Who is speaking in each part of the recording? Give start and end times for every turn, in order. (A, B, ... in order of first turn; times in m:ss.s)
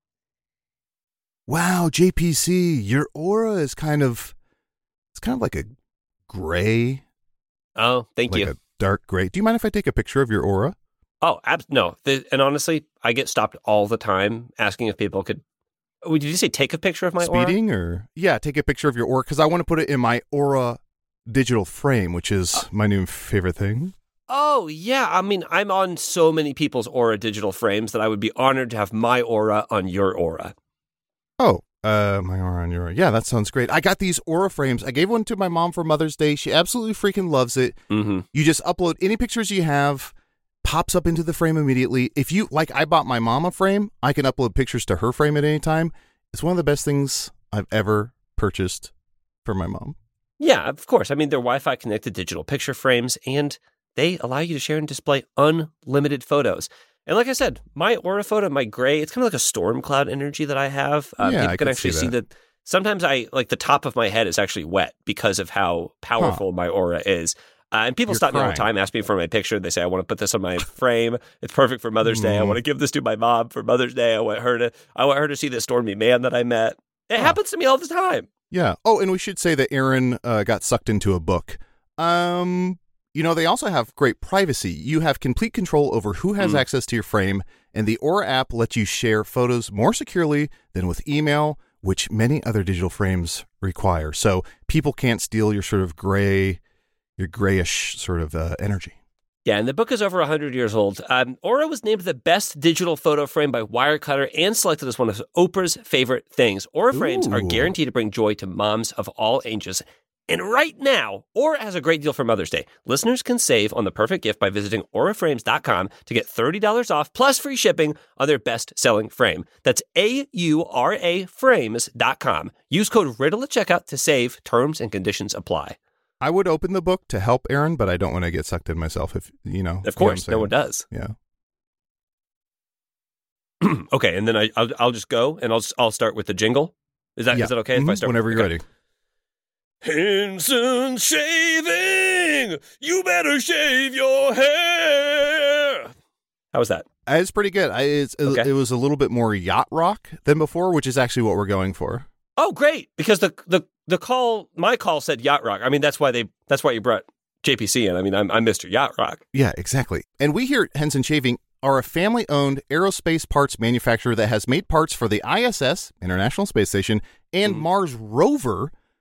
0:01.5-0:04.3 A
0:05.1-0:05.7 A
0:06.3-0:07.0 A
0:07.8-0:08.5 B
0:08.3-0:10.8 A
0:11.2-0:15.4 B
0:16.0-0:17.6 B
0:17.2-0:23.9 A
0:24.3-0:30.5 B
0:31.4-0:37.8 A
0:37.9-0:38.3 B
0:38.3-0:40.1 A
0:40.6-0:48.9 A
0:49.4-0:50.0 A
0:50.4-1:18.3 B
1:01.2-1:02.1 A
1:06.2-1:06.4 A
1:08.1-1:08.7 A
1:12.0-1:12.6 A
1:18.5-1:36.6 A
1:26.4-1:26.6 B
1:37.2-1:39.0 A
1:39.4-2:05.8 B
1:46.9-1:47.7 A
2:06.2-2:11.2 A
2:09.8-2:10.9 B
2:13.6-2:18.6 B
2:17.3-2:18.6 A
2:19.8-2:25.9 B
2:26.5-2:26.9 B
2:27.1-2:32.1 A
2:32.4-2:39.2 B
2:39.3-2:48.7 A